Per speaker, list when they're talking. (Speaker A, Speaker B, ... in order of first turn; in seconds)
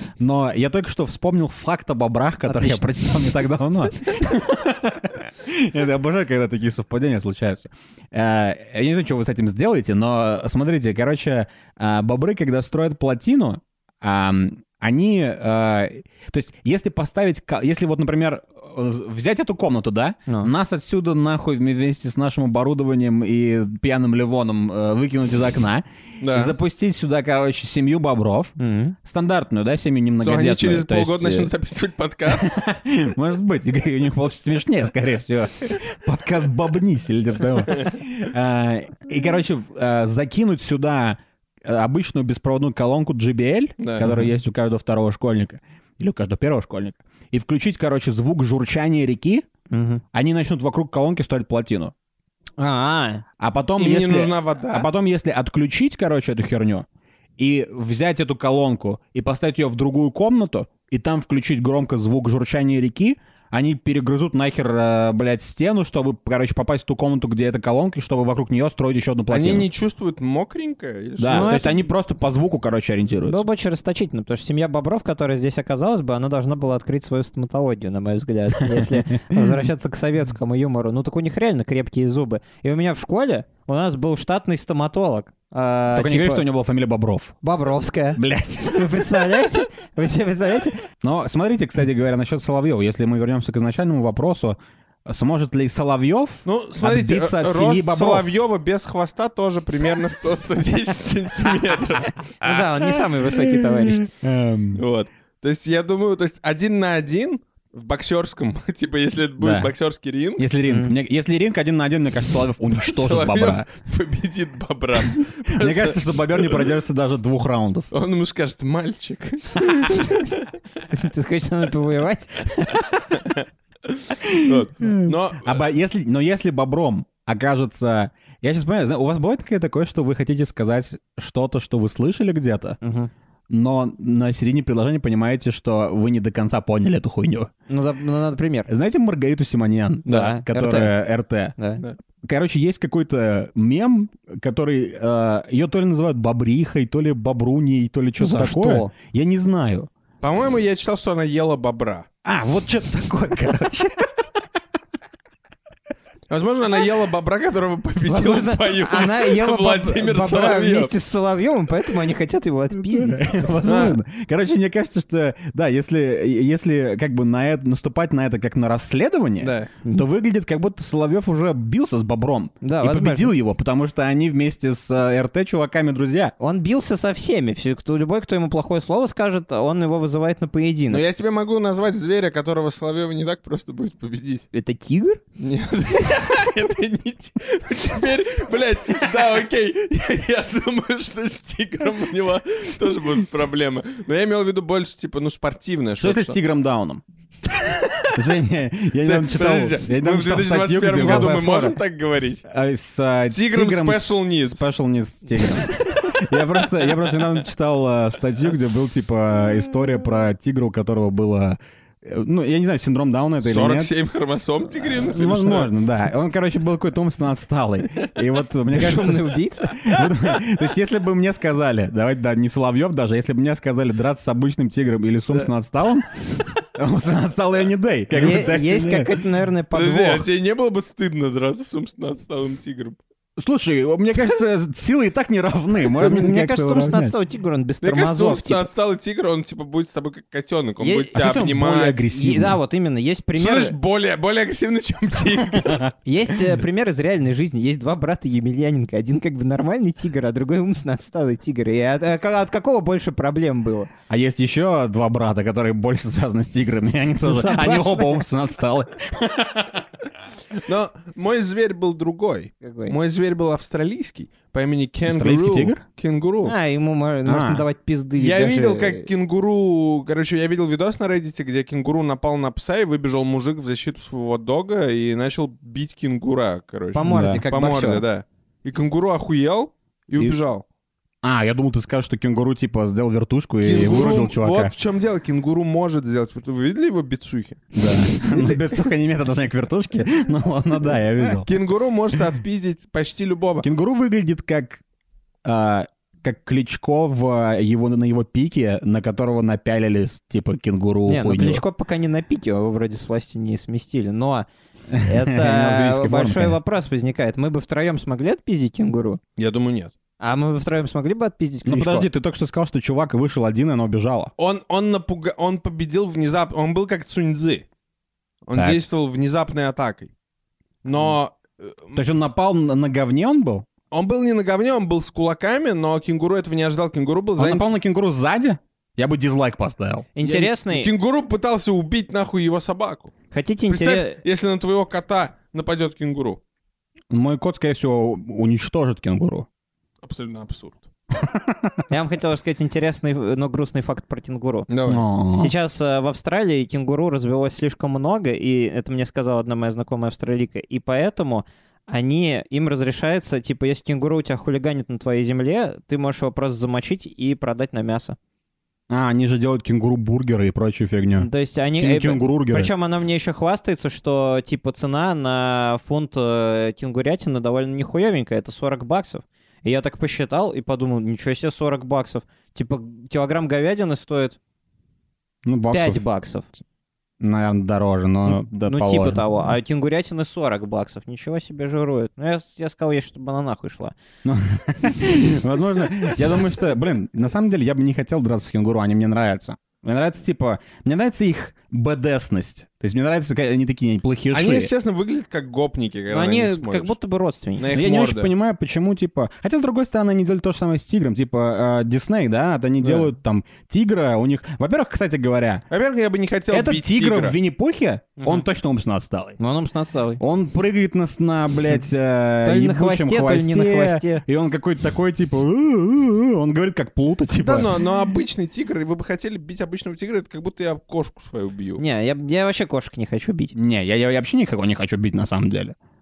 Speaker A: 0.2-31.5, 32.3-49.5, 50.1-51.9, 53.4-56.9, 57.4-69.7, 71.2-73.5, 78.7-79.4, 85.9-87.3, 88.2-88.9, 91.0-98.3, 104.0-104.8, 109.4-109.7, 110.4-113.7, 115.5-117.9, 124.2-132.8, 133.5-137.5, 138.7-141.5, 142.2-149.9, 152.2-154.1, 162.9-176.3, 196.0-197.0, 198.1-201.8, 202.5-213.9, 215.0-226.1, 226.7-229.2, 233.4-237.1, 241.1-242.6, 254.1-259.9, 265.1-265.8, 267.2-267.6, 277.0-277.4, 281.2-284.7, 287.7-291.5, 293.6-294.8, 295.4-301.6, 304.9-306.6, 311.6-314.3, 318.6-318.8, 321.9-323.6, 327.4-330.1, 337.1-339.5, 341.2-341.7, 344.9-345.5, 358.9-361.3, 361.8-362.7, 375.4-376.0, 377.2-379.2, 384.2-394.7, 397.7-405.6, 406.5-409.4, 410.2-417.7, 423.5-425.7
Speaker B: 2.5-3.1, 28.6-28.9, 44.0-44.3, 49.7-50.0, 52.6-53.2, 71.3-71.9, 73.2-86.4, 87.4-90.8, 102.4-104.0, 110.7-110.9, 120.9-122.5, 132.8-133.1, 137.7-138.7, 140.1-140.9, 141.6-141.8, 148.2-148.9, 158.1-163.6, 172.6-173.3, 176.4-181.0, 184.5-185.2, 200.9-201.4, 218.7-219.8, 228.1-230.2, 235.9-238.7, 240.8-241.1, 242.1-243.7, 246.0-253.9, 257.2-258.2, 262.6-262.9, 266.4-269.1, 276.9-278.0, 301.1-304.5, 305.0-309.2, 310.2-312.1, 330.1-330.9, 333.3-334.2, 341.9-344.7, 345.3-358.1, 361.2-374.4, 375.7-376.5, 378.6-383.9, 396.1-397.7, 408.2-408.4, 409.4-410.2, 412.4-414.2, 421.8-423.5
Speaker C: 26.2-26.5, 30.2-32.5, 43.8-44.0, 53.8-54.9, 69.3-71.6, 96.4-102.2, 104.8-110.4, 112.8-116.7, 117.9-120.5, 123.1-125.6, 140.1-140.3, 150.2-152.1, 156.3-160.9, 163.6-163.9, 169.4-169.7, 180.9-184.5, 185.4-196.4, 197.5-198.1, 199.0-202.4, 203.3-204.7, 205.7-206.2, 213.4-215.7, 229.7-233.0, 237.8-242.0, 243.3-245.9, 260.5-266.5, 268.2-280.6, 283.6-288.9, 291.3-293.7, 309.4-309.9, 314.4-317.6, 318.4-320.1, 320.8-322.0, 323.9-327.7, 330.2-333.1, 333.7-336.4, 340.0-340.9, 344.7-345.0, 394.3-396.9, 397.6-398.3, 402.8-403.1, 405.7-407.4, 417.4-421.8